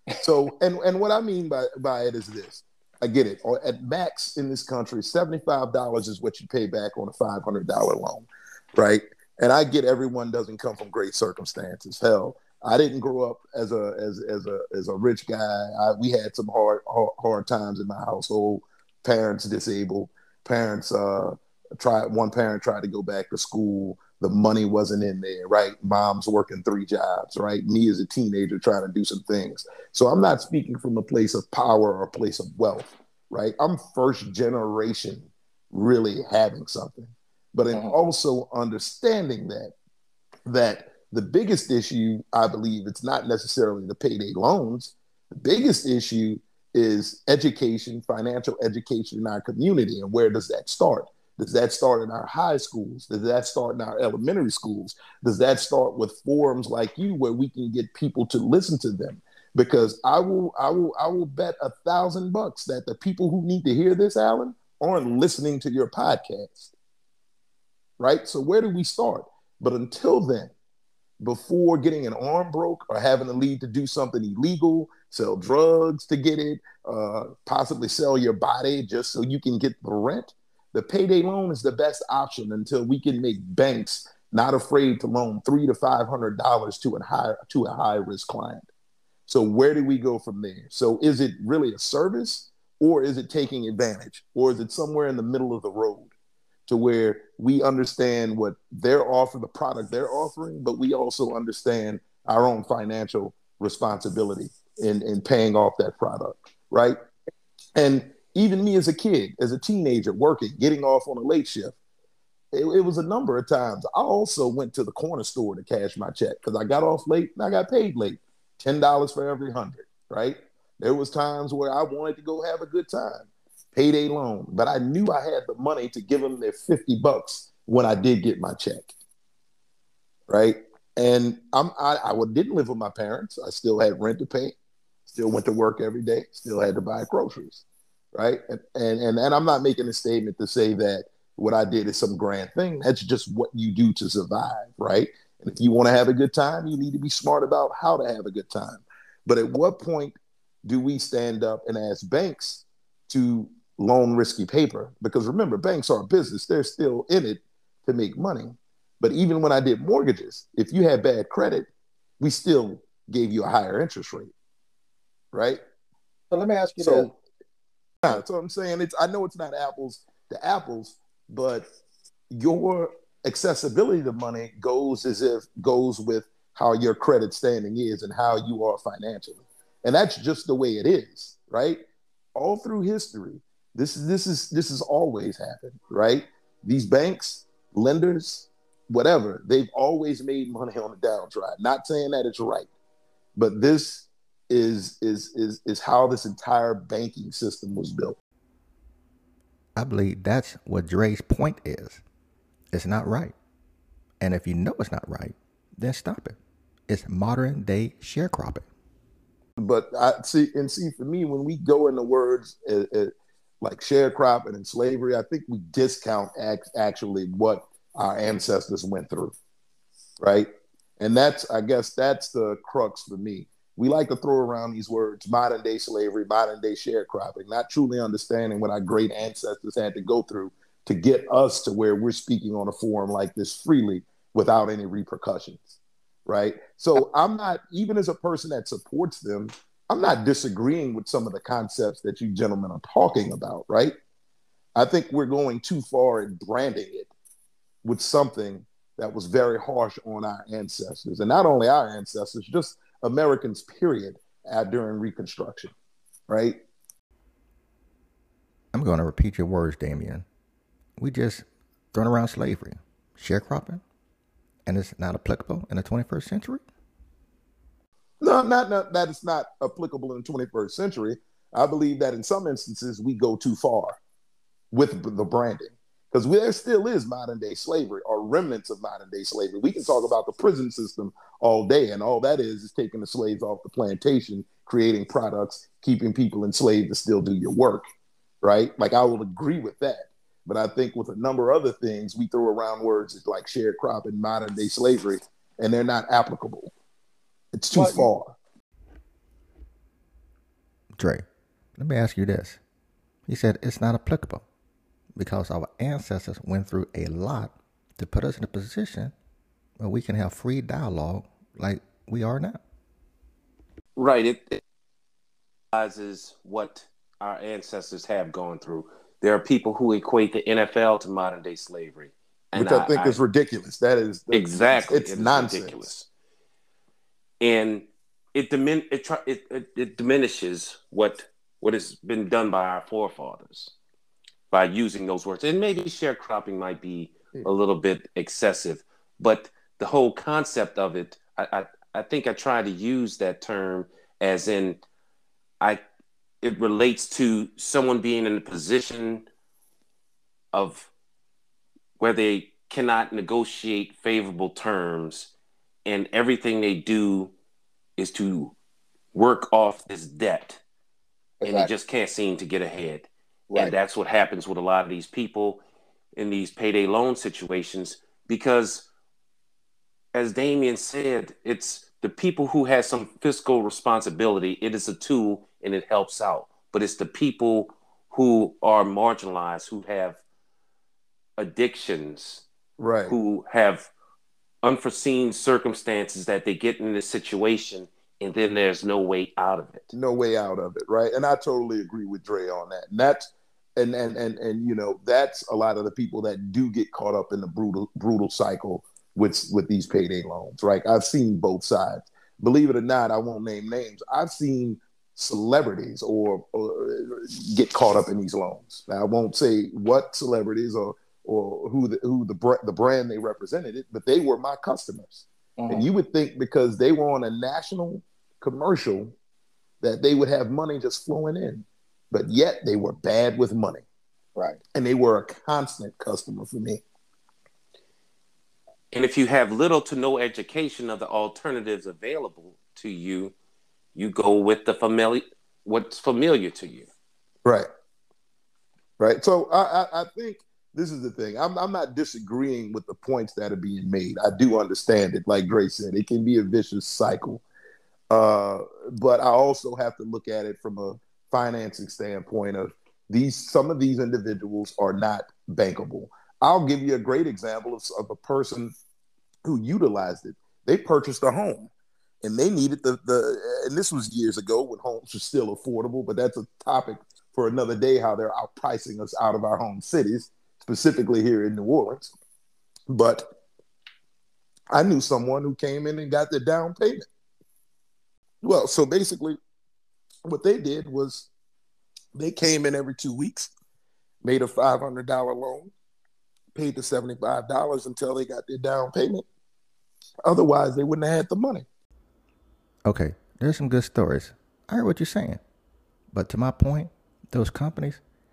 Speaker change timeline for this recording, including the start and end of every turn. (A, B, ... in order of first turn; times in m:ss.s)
0:00.2-0:39.7 A
0:40.5-1:06.7 A
1:08.0-1:10.5 A
1:11.2-1:28.7 A
1:29.3-1:36.1 A
1:36.7-1:47.0 A
1:47.8-1:51.8 A
1:52.5-2:08.9 A
2:10.3-2:14.5 A
2:15.1-2:41.7 A
2:42.2-2:44.3 A
2:45.3-2:45.6 A
2:46.3-2:47.2 B
2:46.8-2:47.1 A
2:48.0-2:51.7 A
2:52.3-3:01.8 A
3:02.4-3:12.7 A
3:13.4-3:18.2 A
3:19.8-3:22.0 C
3:22.7-3:23.4 C
3:24.2-3:28.6 C
3:29.6-3:39.3 A
3:40.2-4:04.0 A
4:04.8-4:07.1 A
4:07.8-4:15.7 A
4:16.3-4:16.6 A
4:18.7-4:20.3 C
4:21.0-4:23.8 C
4:24.7-4:26.6 C
4:28.2-4:34.0 A
4:34.7-4:47.8 A
4:48.4-4:56.7 A
4:57.5-4:58.4 A
4:57.7-4:58.1 B
5:01.0-5:01.2 C
5:01.8-5:02.6 C
5:03.3-5:04.4 C
5:05.2-5:09.1 C
5:09.8-5:12.6 C
5:14.0-5:14.6 D
5:15.7-5:23.2 D
5:22.6-5:25.9 A
5:24.3-5:26.1 D
5:27.4-5:33.7 D
5:34.5-5:44.8 D
5:46.4-5:49.2 D
5:50.5-5:50.9 D
5:52.0-5:55.3 D
5:55.9-5:57.3 D
5:58.0-5:58.6 D
5:59.1-6:00.6 D
6:01.4-6:01.7 B
6:01.4-6:05.6 D
6:03.5-6:03.8 B
6:06.2-6:08.9 D
6:10.1-6:20.2 D
6:21.4-6:22.4 D
6:22.8-6:23.2 A
6:23.1-6:23.9 D
6:24.6-6:29.9 D
6:29.9-6:59.1 A
6:55.6-6:55.9 B
6:59.8-7:03.8 A
7:04.7-7:06.8 A
7:08.9-7:13.3 D
7:14.0-7:16.9 D
7:19.0-7:27.4 A
7:28.1-7:38.7 A
7:39.4-7:41.7 A
7:42.2-7:52.1 A
7:52.9-7:53.4 A
7:54.7-7:57.1 A
7:58.4-7:59.4 A
8:00.3-8:01.3 A
8:02.2-8:03.5 A
8:04.2-8:05.7 A
8:06.5-8:09.2 A
8:10.2-8:11.7 A
8:12.9-8:15.4 C
8:16.1-8:18.0 C